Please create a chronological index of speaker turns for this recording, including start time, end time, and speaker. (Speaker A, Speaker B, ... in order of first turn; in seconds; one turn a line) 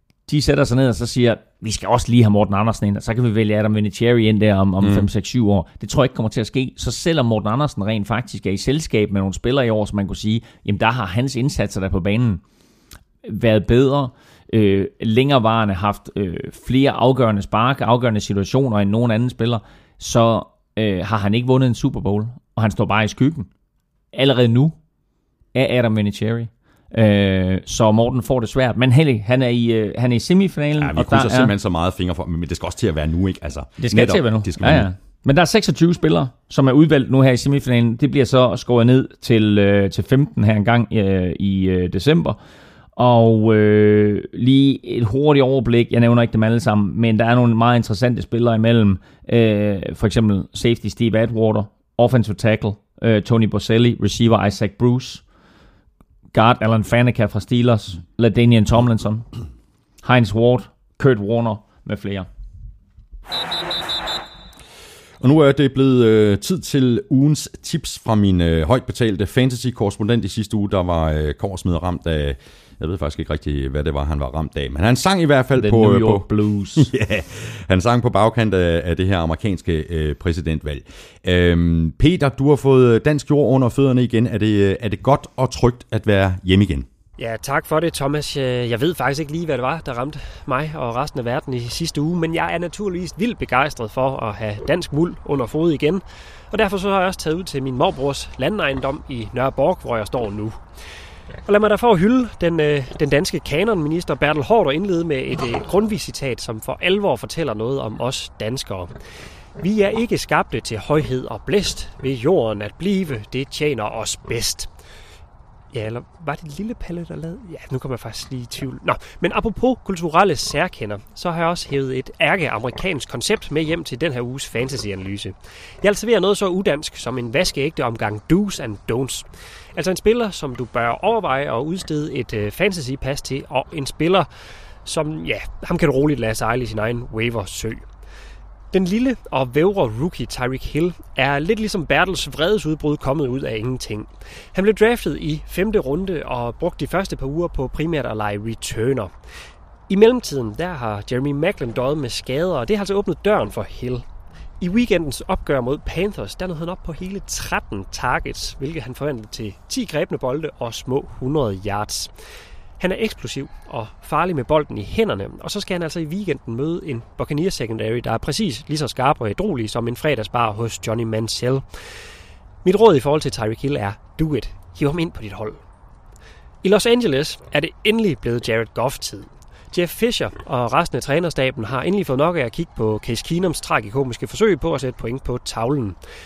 Speaker A: 0.3-12.4
Speaker B: 4.8-5.1
Speaker A: 13.2-23.5
Speaker A: 24.1-24.7
Speaker A: 25.5-31.5
Speaker B: 30.8-34.9
Speaker A: 33.8-42.4
Speaker A: 43.0-55.2
Speaker A: 56.3-59.2
Speaker A: 60.0-62.3
Speaker B: 65.2-86.9
Speaker A: 75.5-76.9
Speaker C: 87.2-100.6
Speaker C: 101.5-108.9
Speaker C: 109.5-114.7
Speaker C: 115.7-134.3
Speaker C: 134.8-137.9
Speaker C: 138.7-149.1
Speaker C: 149.9-154.1
Speaker C: 154.6-162.1
Speaker C: 162.8-171.7
Speaker C: 172.6-175.6
Speaker C: 176.6-186.0